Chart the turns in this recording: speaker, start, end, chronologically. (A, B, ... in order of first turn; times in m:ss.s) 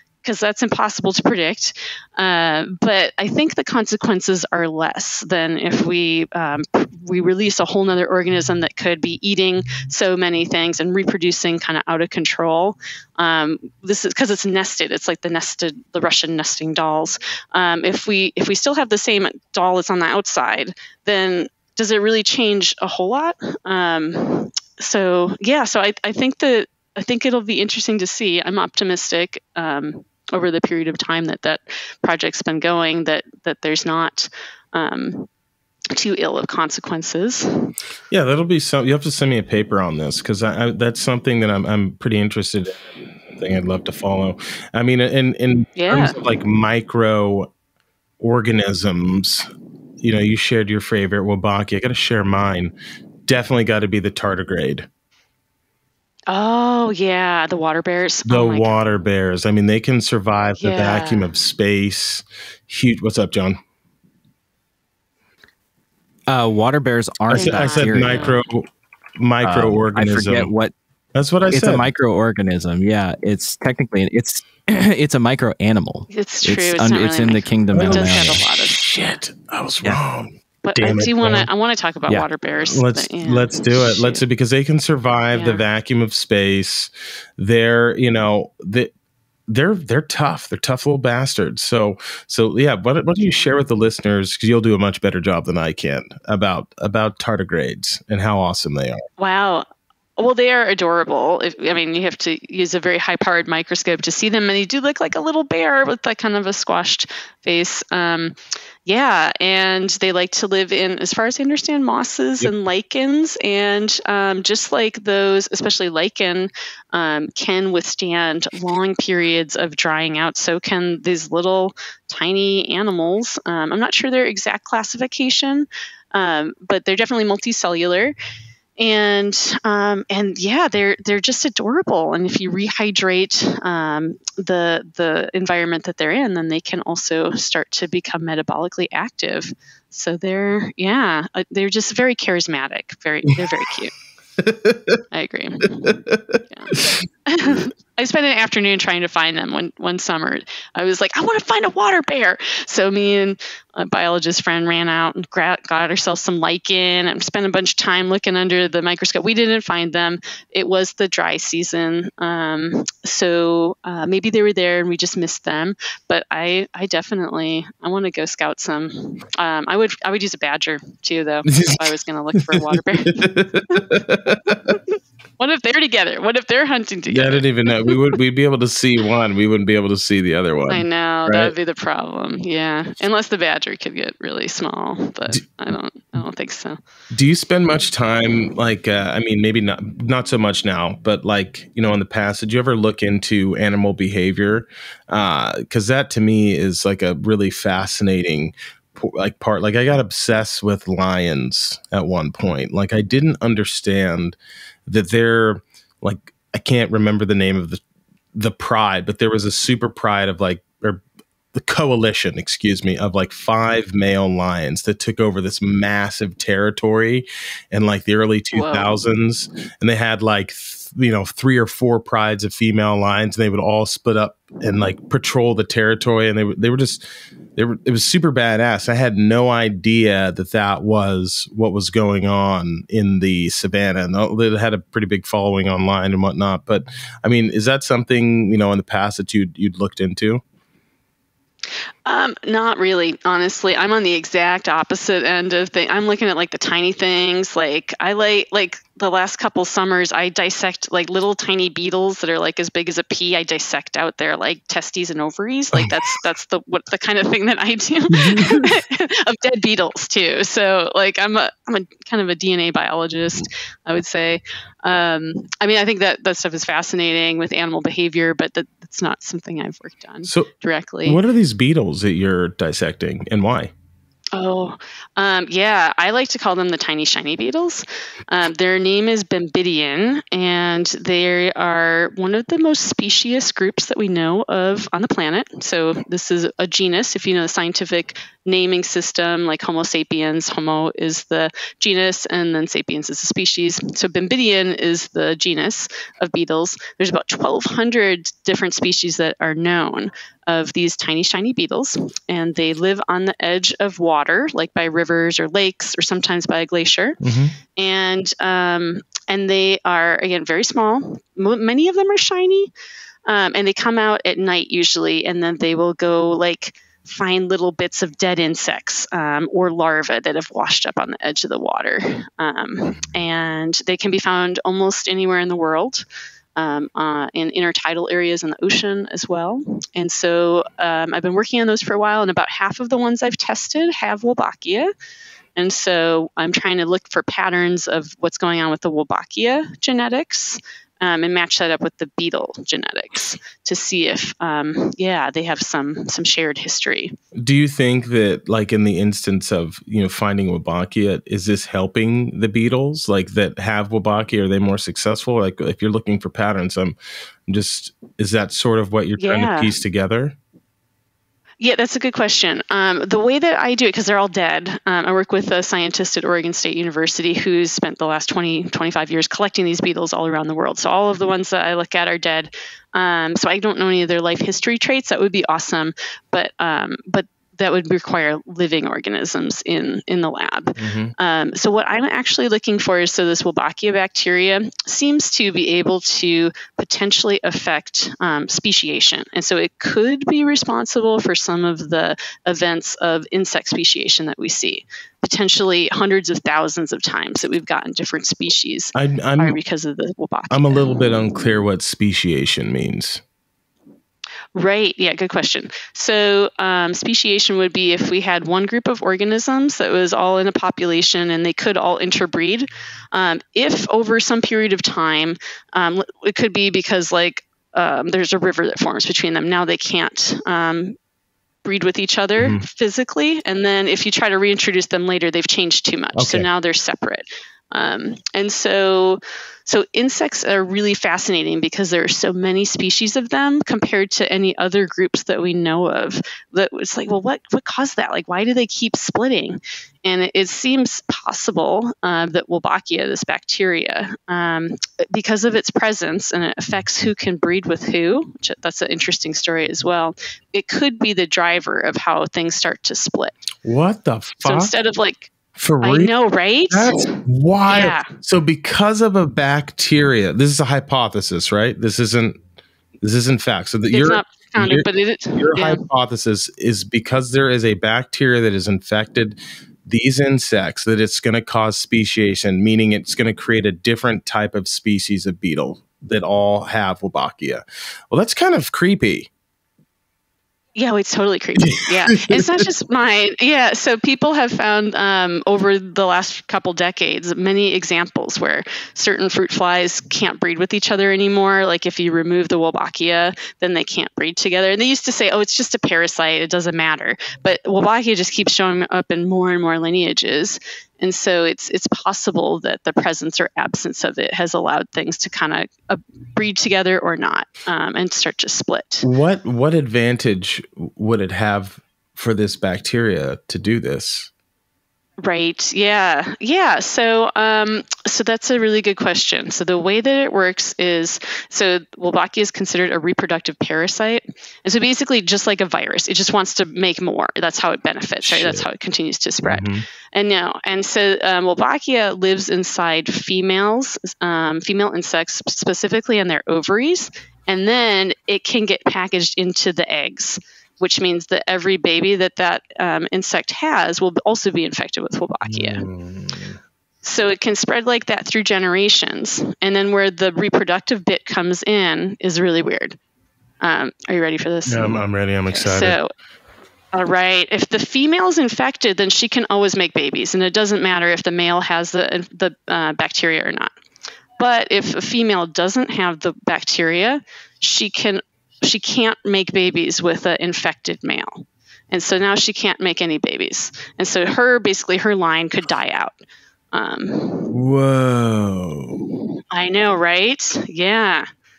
0:00.2-0:35.3 A
0:35.9-0:37.7 A
0:38.1-0:47.5 B
0:45.8-0:46.2 A
0:48.2-0:49.5 B
0:50.0-0:52.7 B
0:53.3-0:54.9 B
0:56.3-0:58.8 A
0:58.3-1:03.6 B
1:00.6-1:01.3 A
1:06.3-1:08.4 C
1:07.3-1:10.5 B
1:07.3-1:08.4 A
1:09.4-1:10.7 C
1:11.2-1:11.9 B
1:11.5-1:18.4 C
1:16.1-1:18.9 A
1:17.7-1:21.5 B
1:20.6-1:24.2 A
1:22.6-1:28.9 B
1:25.3-1:25.6 A
1:29.5-1:39.0 B
1:39.2-1:39.7 A
1:40.2-1:48.3 A
1:48.9-2:08.2 A
2:08.8-2:24.0 A
2:24.5-2:24.9 B
2:25.1-2:53.8 A
2:51.5-2:51.8 B
2:52.4-2:54.8 B
2:55.4-2:58.0 A
2:57.1-3:01.5 B
3:00.7-3:06.8 A
3:07.1-3:27.8 B
3:28.3-3:31.0 B
3:31.5-3:47.0 B
3:38.5-3:39.0 A
3:47.6-4:00.4 B
4:02.1-4:31.2 A
4:18.1-4:18.7 B
4:30.2-4:30.5 B
4:31.0-4:33.7 B
4:34.3-5:07.2 A
5:07.2-5:07.6 B
5:07.8-5:12.7 A
5:13.3-5:34.9 A
5:35.6-5:47.1 A
5:47.4-6:00.4 B
5:59.2-5:59.8 A
6:01.6-6:41.0 A
6:20.8-6:21.1 B
6:39.0-6:39.6 B
6:40.5-6:43.2 B
6:44.6-7:01.0 A
7:01.6-7:33.4 A
7:06.2-7:06.5 B
7:33.6-7:34.7 B
7:34.4-7:35.3 A
7:35.6-7:36.1 B
7:35.8-7:37.1 A
7:36.7-7:42.4 B
7:37.7-7:38.1 A
7:43.0-7:59.3 B
7:43.9-7:45.8 A
8:00.8-8:29.1 A
8:02.2-8:02.6 B
8:29.0-8:34.3 B
8:35.2-9:05.9 A
8:48.2-8:48.7 B
8:49.4-8:49.8 B
9:05.4-9:06.6 B
9:07.0-9:13.0 A
9:13.6-9:16.1 A
9:14.7-9:16.0 B
9:16.9-9:23.7 A
9:24.4-9:36.2 A
9:36.7-9:37.5 A
9:37.5-9:39.0 B
9:39.5-9:41.3 A